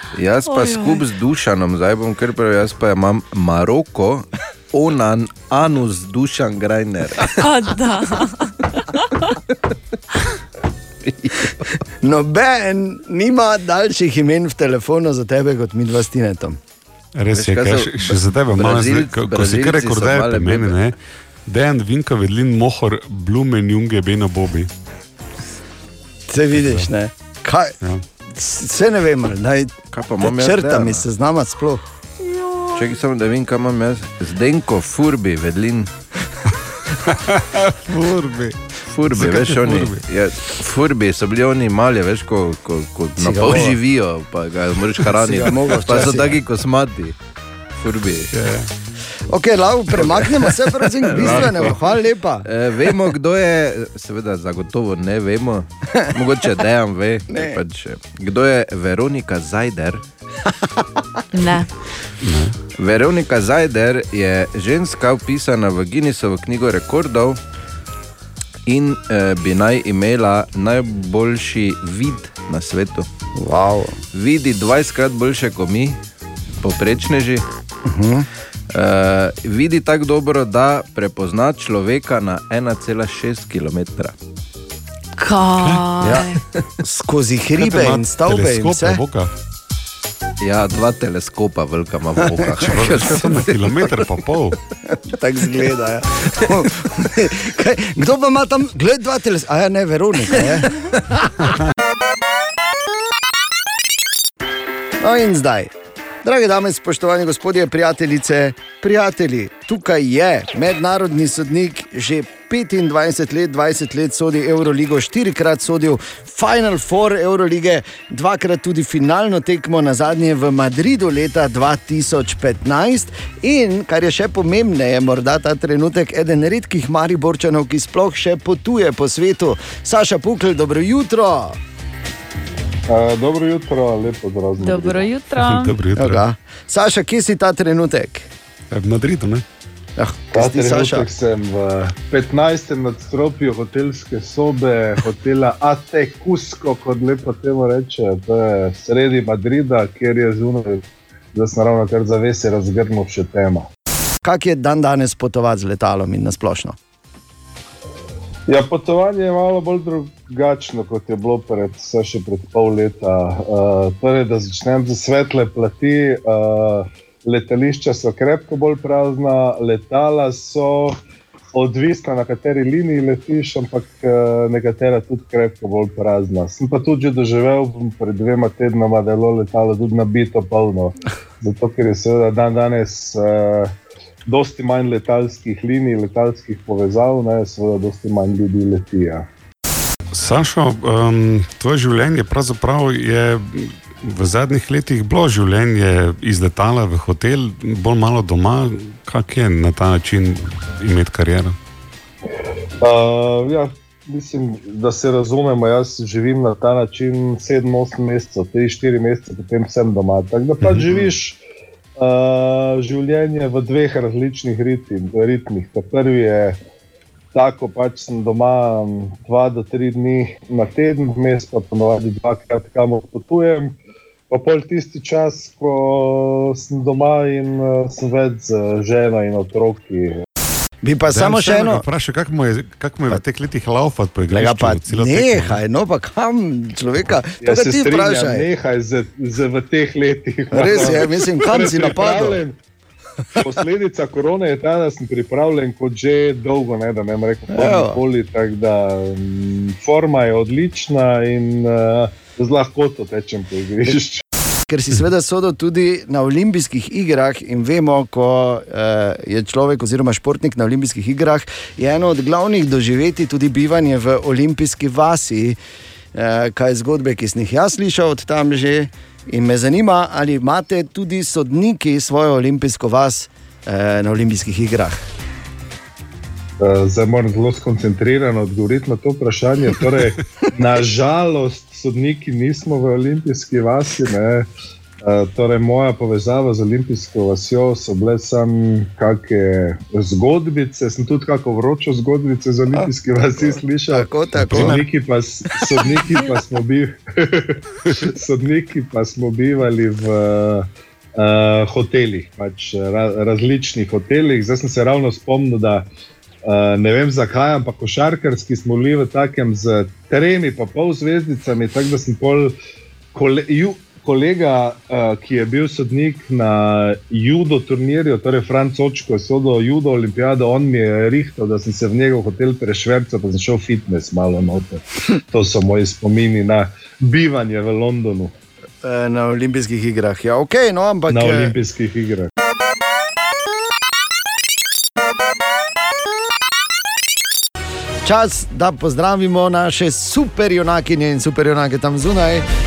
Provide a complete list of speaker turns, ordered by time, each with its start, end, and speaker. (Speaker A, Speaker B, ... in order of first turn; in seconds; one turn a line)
Speaker A: 0.1-7.3
Speaker B: 0.5-1.1
Speaker B: 7.3-9.3
Speaker A: 11.1-11.6
Speaker C: 12.0-16.6
Speaker D: 17.2-20.9
Speaker A: 17.3-20.8
Speaker D: 21.5-24.7
Speaker C: 26.3-27.8
Speaker C: 28.3-31.8
Speaker A: 29.9-31.0
Speaker A: 32.8-35.9
Speaker D: 37.3-38.6
Speaker A: 38.9-47.2
Speaker D: 39.1-40.0
Speaker C: 43.2-43.8
Speaker C: 45.1-46.4
Speaker A: 47.8-48.3
Speaker D: 48.3-48.7
Speaker C: 49.3-52.5
Speaker A: 50.0-51.9
Speaker A: 52.5-60.0
Speaker C: 57.3-57.6
Speaker B: 61.3-61.7
Speaker D: 62.2-62.5
Speaker A: 62.8-67.4
Speaker A: 68.7-73.1
Speaker C: 73.3-74.0
Speaker A: 74.1-76.0
Speaker A: 76.6-77.4
Speaker C: 77.8-78.3
Speaker A: 78.7-84.2
Speaker B: 85.2-86.4
Speaker C: 86.0-89.0
Speaker D: 87.6-89.3
Speaker A: 90.4-93.6
Speaker D: 92.6-94.6
Speaker C: 94.9-101.5
Speaker C: 105.0-105.7
Speaker C: 106.2-131.6
Speaker E: 132.9-135.1
Speaker B: 134.6-135.7
Speaker D: 135.4-136.2
Speaker C: 136.0-138.3
Speaker D: 138.7-139.4
Speaker C: 140.0-141.1
Speaker E: 140.3-153.7
Speaker C: 154.2-156.8
Speaker E: 158.5-171.0
Speaker E: 171.5-183.7
Speaker E: 184.3-189.2
Speaker D: 190.1-201.6
Speaker E: 202.8-211.4
Speaker D: 210.6-211.1
Speaker E: 212.0-216.6
Speaker E: 217.3-223.7
Speaker E: 224.3-230.2
Speaker C: 230.8-231.8
Speaker D: 231.1-235.6
Speaker C: 234.3-238.5
Speaker E: 237.4-242.6
Speaker C: 240.5-242.4
Speaker E: 243.4-254.2
Speaker C: 247.5-248.0
Speaker C: 254.7-265.6
Speaker C: 266.1-275.1
Speaker E: 276.6-284.5
Speaker E: 285.0-305.9
Speaker C: 293.4-294.8
Speaker D: 294.4-294.9
Speaker E: 306.5-312.6
Speaker E: 313.1-328.4
Speaker C: 328.8-331.5
Speaker E: 331.1-332.3
Speaker C: 338.0-342.5